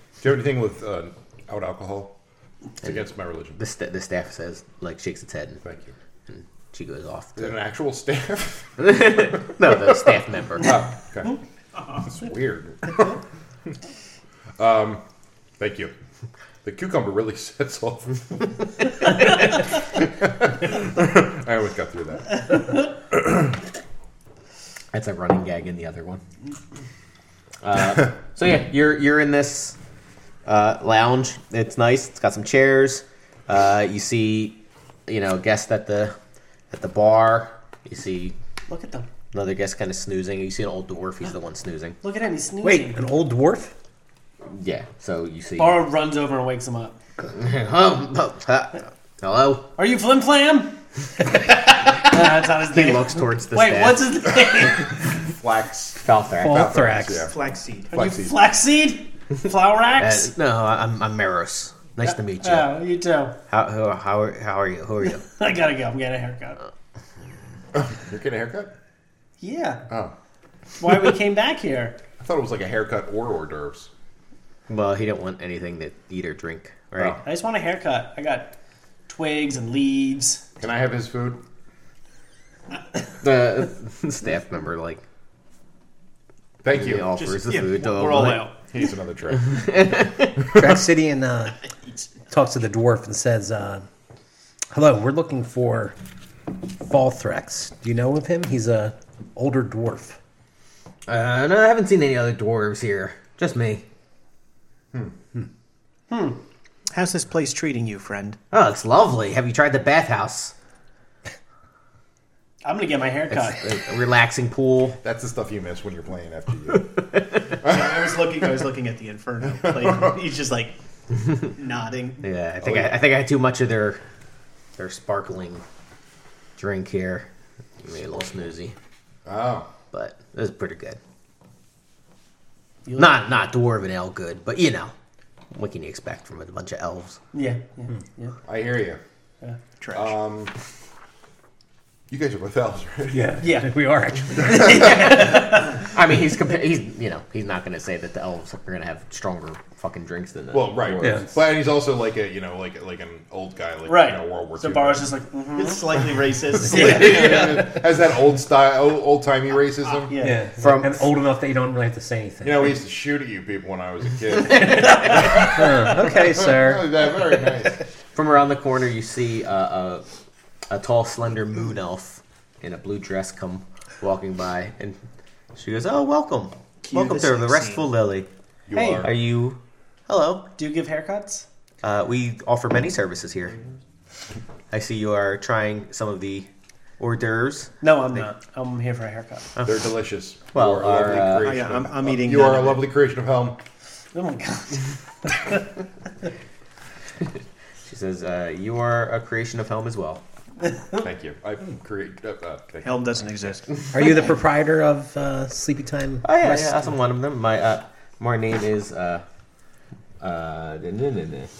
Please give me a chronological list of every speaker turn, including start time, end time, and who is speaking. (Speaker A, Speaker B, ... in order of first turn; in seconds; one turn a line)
Speaker A: 0.2-2.1
Speaker A: 2.8-3.6
Speaker B: 3.6-5.6
Speaker A: 5.6-5.9
Speaker B: 6.3-7.5
Speaker A: 7.4-9.8
Speaker B: 8.8-10.8
Speaker A: 10.6-13.2
Speaker A: 14.6-15.0
Speaker A: 15.6-15.9
Speaker A: 16.6-18.3
Speaker A: 19.2-23.4
Speaker B: 24.9-26.2
Speaker B: 27.6-29.8
Speaker B: 30.4-36.1
Speaker B: 36.7-38.4
Speaker C: 38.7-39.1
Speaker B: 39.3-42.0
Speaker C: 42.0-43.0
Speaker D: 42.6-43.7
Speaker B: 44.5-45.8
Speaker C: 45.6-47.0
Speaker B: 47.3-49.7
Speaker C: 49.8-55.1
Speaker B: 52.6-54.1
Speaker A: 55.2-57.3
Speaker B: 56.0-56.7
Speaker D: 56.4-57.3
Speaker E: 57.3-58.0
Speaker A: 57.9-58.4
Speaker C: 57.9-60.3
Speaker B: 60.0-62.8
Speaker C: 62.0-63.4
Speaker B: 63.5-65.2
Speaker C: 65.2-66.6
Speaker A: 67.7-68.7
Speaker C: 69.4-69.9
Speaker A: 69.9-70.1
Speaker C: 70.8-72.0
Speaker A: 72.2-73.9
Speaker B: 74.7-77.2
Speaker C: 77.2-78.5
Speaker C: 79.1-80.4
Speaker A: 80.6-81.4
Speaker B: 83.2-85.0
Speaker A: 86.6-87.1
Speaker B: 86.7-88.5
Speaker E: 87.1-88.5
Speaker A: 88.5-90.0
Speaker B: 89.5-90.7
Speaker D: 90.5-91.6
Speaker D: 92.3-93.9
Speaker D: 94.7-96.0
Speaker D: 96.7-100.2
Speaker B: 101.1-103.8
Speaker C: 106.1-106.4
Speaker E: 106.9-108.4
Speaker B: 108.5-110.5
Speaker C: 112.6-113.6
Speaker B: 113.3-115.0
Speaker A: 115.0-117.0
Speaker B: 117.1-117.4
Speaker A: 117.6-118.0
Speaker E: 117.6-122.2
Speaker B: 122.2-124.0
Speaker A: 122.6-123.0
Speaker B: 124.8-125.6
Speaker B: 126.6-127.3
Speaker B: 127.8-128.7
Speaker A: 129.2-129.7
Speaker B: 129.9-131.0
Speaker B: 132.9-134.9
Speaker B: 135.5-137.2
Speaker C: 137.3-138.4
Speaker A: 138.4-139.0
Speaker E: 139.8-140.1
Speaker A: 139.9-140.5
Speaker A: 142.1-143.4
Speaker D: 143.1-145.1
Speaker C: 143.4-143.7
Speaker C: 144.5-145.7
Speaker B: 144.5-151.2
Speaker A: 150.5-155.1
Speaker D: 151.0-151.3
Speaker C: 153.9-155.9
Speaker E: 155.5-157.4
Speaker A: 156.6-160.1
Speaker C: 156.7-157.6
Speaker E: 160.1-160.4
Speaker D: 160.2-162.8
Speaker B: 160.6-161.1
Speaker A: 162.4-167.8
Speaker B: 164.3-165.4
Speaker D: 164.6-167.0
Speaker B: 168.1-170.0
Speaker B: 170.7-175.0
Speaker B: 175.5-178.3
Speaker E: 176.8-177.9
Speaker A: 178.7-179.2
Speaker C: 178.7-179.0
Speaker B: 179.0-180.5
Speaker C: 180.6-181.4
Speaker B: 181.8-183.6
Speaker B: 184.7-186.5
Speaker B: 187.0-188.2
Speaker C: 187.8-189.5
Speaker A: 189.6-193.6
Speaker B: 190.5-191.6
Speaker E: 191.4-192.8
Speaker C: 194.1-195.6
Speaker B: 197.8-200.2
Speaker A: 201.0-203.6
Speaker E: 202.8-203.7
Speaker D: 203.9-206.9
Speaker B: 206.2-209.2
Speaker B: 210.2-211.5